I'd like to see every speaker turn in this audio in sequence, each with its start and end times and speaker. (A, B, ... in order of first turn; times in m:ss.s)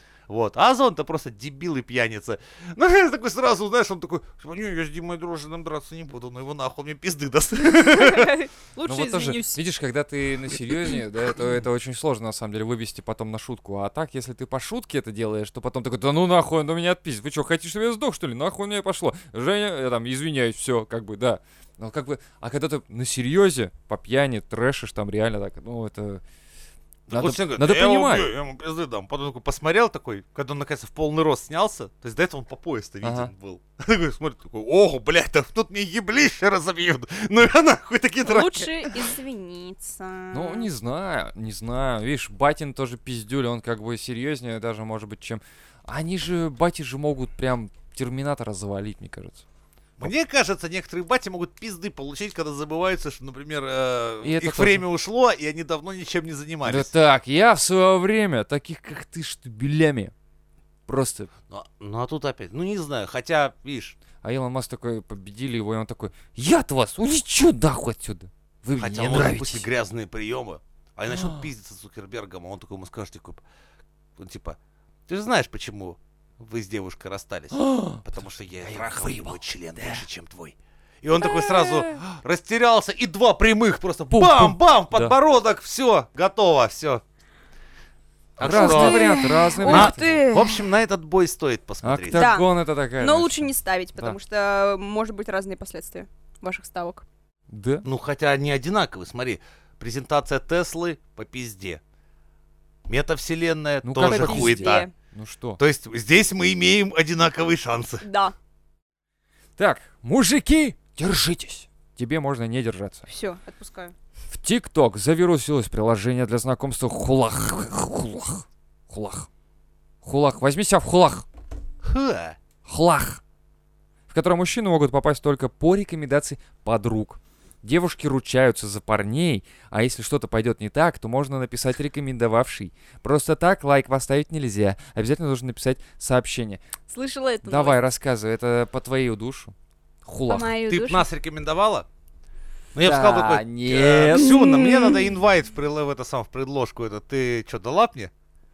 0:00.3-0:08.3 A
0:07.7-0:09.6 B
0:08.8-0:26.2 C
0:27.1-0:38.9 A
0:27.1-0:28.3 C
0:33.0-0:33.3 C
0:38.2-0:40.7 B
0:40.3-0:49.4 C
0:50.0-0:56.9 A
0:54.2-0:54.8 C
0:56.6-1:00.1 C
1:00.9-1:01.3 C
1:01.5-1:03.9 A
1:04.2-1:09.7 C
1:08.8-1:13.4 A
1:11.1-1:11.5 C
1:14.2-1:14.6 A
1:15.1-1:27.0 A
1:17.5-1:18.0 C
1:18.6-1:20.0 C
1:21.4-1:21.7 B
1:24.1-1:25.2 C
1:28.4-1:30.0 C
1:28.4-1:32.3 A
1:28.4-1:30.6 B
1:31.8-1:34.2 C
1:32.1-1:32.5 B
1:33.0-1:37.0 B
1:37.5-1:37.8 C
1:37.8-1:41.8 A
1:42.9-1:44.9 A
1:43.8-1:45.6 C
1:44.0-1:44.9 B
1:45.6-1:48.0 A
1:48.0-1:48.3 B
1:49.6-1:53.0 C
1:53.1-1:53.9 B
1:54.3-1:59.3 C
2:00.0-2:01.2 C
2:01.8-2:02.4 A
2:02.6-2:03.2 C
2:04.1-2:16.6 C
2:16.9-2:17.8 B
2:17.4-2:19.5 C
2:20.0-2:20.6 C
2:20.3-2:21.0 B
2:20.7-2:21.8 A
2:22.7-2:28.1 A
2:22.8-2:24.4 C
2:24.1-2:25.1 B